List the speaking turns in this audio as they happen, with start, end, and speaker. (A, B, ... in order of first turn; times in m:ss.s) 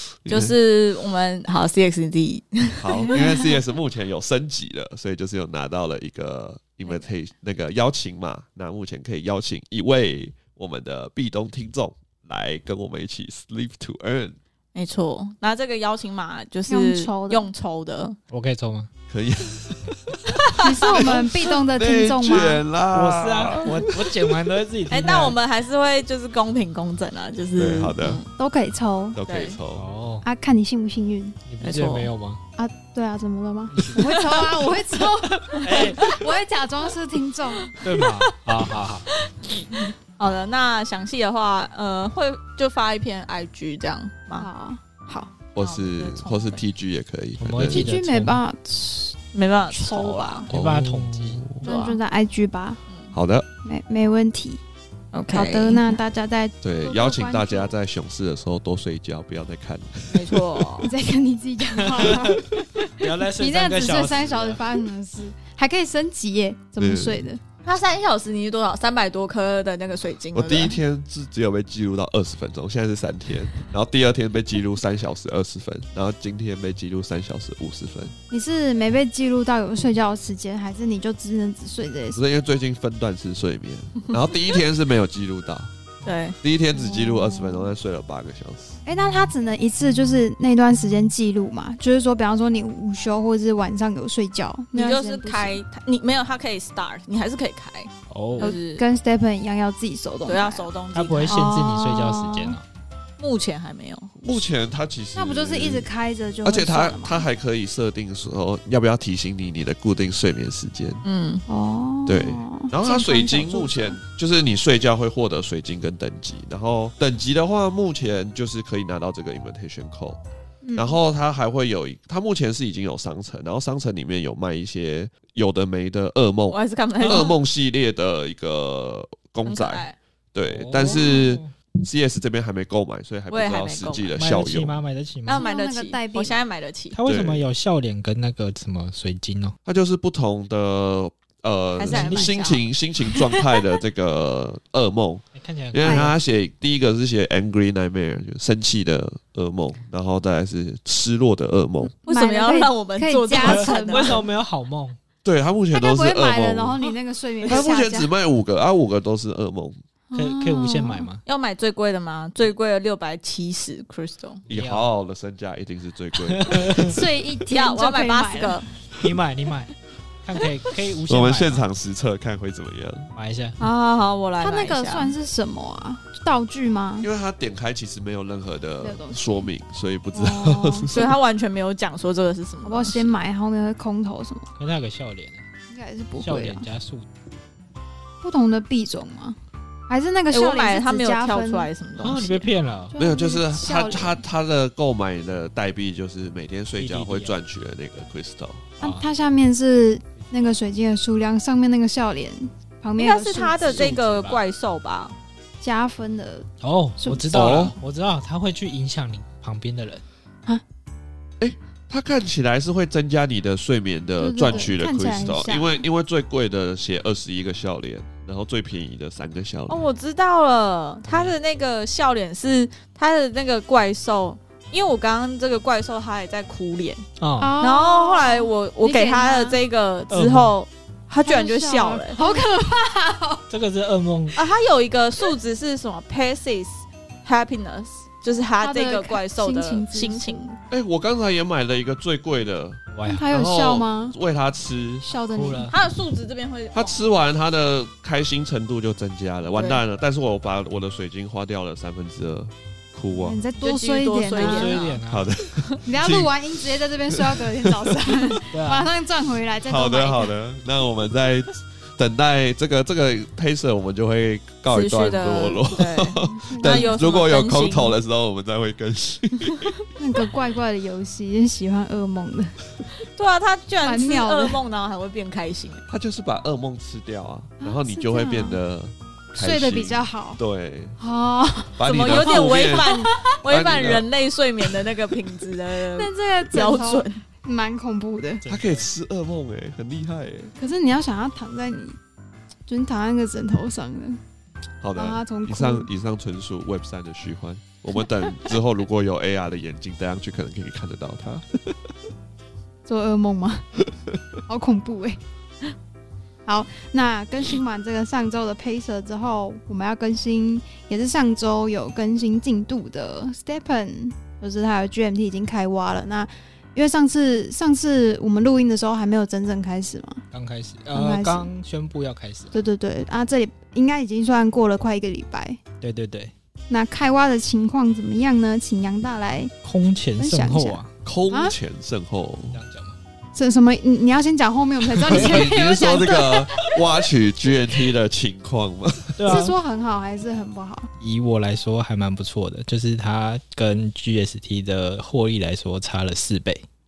0:00.2-0:00.5 A
0:00.3-0:03.3 B
0:02.8-0:14.4 A
0:03.1-0:03.6 C
0:14.7-0:18.2 B
0:16.7-0:17.5 C
0:18.3-0:18.9 D
0:19.1-0:24.2 A
0:20.6-0:22.6 C
0:20.6-0:21.1 B
0:22.9-0:25.4 D
0:24.9-0:28.3 B
0:27.6-0:28.2 A
0:28.4-0:29.2 C
0:29.1-0:29.8 A
0:29.2-0:29.6 B
0:29.7-0:30.2 D
0:30.2-0:31.4 C
0:31.5-0:32.4 D
0:31.6-0:32.1 B
0:32.6-0:37.8 C
0:33.7-0:34.0 D
0:34.0-0:36.2 B
0:35.6-0:36.0 D
0:37.8-0:39.1 D
0:39.4-0:44.5 B
0:44.4-0:45.3 C
0:45.5-0:47.9 A
0:45.6-0:46.6 B
0:47.4-0:48.4 D
0:47.6-0:49.2 C
0:49.3-0:50.5 B
0:49.7-0:50.5 C
0:50.5-0:51.6 A
0:50.5-0:51.5 D
0:51.6-0:52.8 C
0:51.6-0:52.0 B
0:53.1-0:53.5 A
0:53.6-0:54.6 C
0:55.1-0:56.0 B
0:55.3-0:57.7 C
0:56.6-1:00.8 A
1:00.1-1:00.9 B
1:00.8-1:07.4 C
1:01.8-1:04.6 D
1:06.8-1:07.2 A
1:07.6-1:10.8 B
1:10.3-1:18.1 A
1:18.3-1:22.2 C
1:22.1-1:25.7 A
1:26.0-1:26.4 B
1:26.4-1:28.8 A
1:26.7-1:27.7 C
1:28.8-1:35.6 C
1:34.7-1:38.8 B
1:38.1-1:38.5 D
1:38.4-1:40.7 C
1:40.2-1:41.4 B
1:40.9-1:42.6 D
1:41.3-1:42.6 C
1:43.2-1:44.2 B
1:44.2-1:45.9 A
1:45.2-1:47.2 C
1:46.4-1:51.0 A
1:51.0-1:51.4 B
1:51.5-1:54.0 C
1:52.0-2:00.2 A
2:00.6-2:01.0 C
2:00.8-2:14.8 A
2:06.5-2:07.4 B
2:09.4-2:10.0 B
2:10.4-2:11.5 D
2:13.3-2:14.1 B
2:14.2-2:15.4 D
2:15.2-2:17.0 B
2:15.4-2:16.4 C
2:16.9-2:19.6 D
2:17.0-2:17.4 A
2:19.6-2:31.9 A
2:21.8-2:22.6 B
2:21.9-2:22.3 D
2:25.3-2:26.1 D
2:25.8-2:26.1 C
2:32.0-2:34.2 B
2:32.0-2:34.2 C
2:33.4-2:35.0 D
2:35.2-2:36.8 A
2:35.7-2:38.1 C
2:37.4-2:37.7 D
2:37.4-2:39.8 A
2:40.1-2:41.0 C
2:40.1-2:41.2 D
2:41.2-2:44.4 B
2:44.5-2:44.9 D
2:44.5-2:47.0 A
2:46.3-2:46.9 D
2:46.8-2:48.6 C
2:47.5-2:48.6 B
2:49.0-2:51.6 D
2:51.1-2:53.1 A
2:53.1-2:53.6 D
2:53.6-2:55.1 B
2:54.4-2:57.1 C
2:57.0-3:01.2 A
2:58.8-2:59.2 C
3:00.1-3:01.1 C
3:00.9-3:03.1 B
3:02.6-3:04.5 C
3:04.6-3:05.4 D
3:05.7-3:06.7 C
3:06.2-3:07.1 D
3:08.2-3:09.4 C
3:09.9-3:11.7 C
3:10.3-3:12.5 B
3:12.0-3:12.9 D
3:12.9-3:14.2 C
3:13.0-3:18.7 A
3:16.8-3:17.4 D
3:18.8-3:19.0 D
3:18.8-3:23.9 C
3:23.0-3:25.1 B
3:23.6-3:24.4 D
3:25.6-3:26.5 C
3:26.6-3:30.0 D
3:27.0-3:27.6 C
3:27.3-3:27.7 A
3:31.4-3:39.8 A
3:34.2-3:35.8 C
3:39.7-3:47.0 B
3:47.2-3:47.5 D
3:47.4-3:49.6 C
3:47.6-3:52.4 B
3:50.1-3:50.5 D
3:51.2-3:53.4 C
3:53.5-3:54.4 D
3:54.3-4:00.5 B
3:58.6-4:00.5 C
4:00.7-4:05.0 A
4:02.9-4:03.2 D
4:03.0-4:04.2 C
4:05.0-4:05.7 C
4:05.3-4:05.8 D
4:05.7-4:07.0 B
4:06.7-4:13.4 A
4:09.5-4:09.8 B
4:13.2-4:14.9 C
4:13.6-4:15.0 B
4:14.4-4:15.3 D
4:15.1-4:16.6 A
4:15.8-4:20.3 C
4:17.1-4:18.4 A
4:18.5-4:18.9 D
4:19.6-4:29.7 A
4:24.7-4:27.9 B
4:26.5-4:27.0 C
4:30.0-4:32.6 C
4:33.1-4:35.8 B
4:33.8-4:34.6 C
4:35.9-4:41.0 A
4:37.6-4:38.6 C
4:39.4-4:40.4 C
4:41.0-4:43.2 C
4:41.8-4:44.1 A
4:41.8-4:47.2 B
4:46.0-4:48.4 C
4:48.4-4:48.9 D
4:48.5-4:50.5 A
4:50.6-4:52.0 C
4:52.7-4:54.2 C
4:54.8-5:01.9 A
4:55.0-4:55.9 C
5:02.8-5:03.7 C
5:04.4-5:05.2 C
5:06.4-5:20.2 C
5:20.3-5:22.5 D
5:20.9-5:21.5 C
5:22.5-5:25.6 C
5:25.8-5:26.3 D
5:26.7-5:29.5 C
5:29.6-5:30.9 D
5:30.2-5:30.8 C
5:31.0-5:32.6 A
5:32.5-5:33.0 D
5:33.3-5:36.8 C
5:35.0-5:39.4 A
5:35.1-5:35.4 D
5:39.2-5:39.5 D
5:39.2-5:40.9 C
5:41.0-5:46.6 D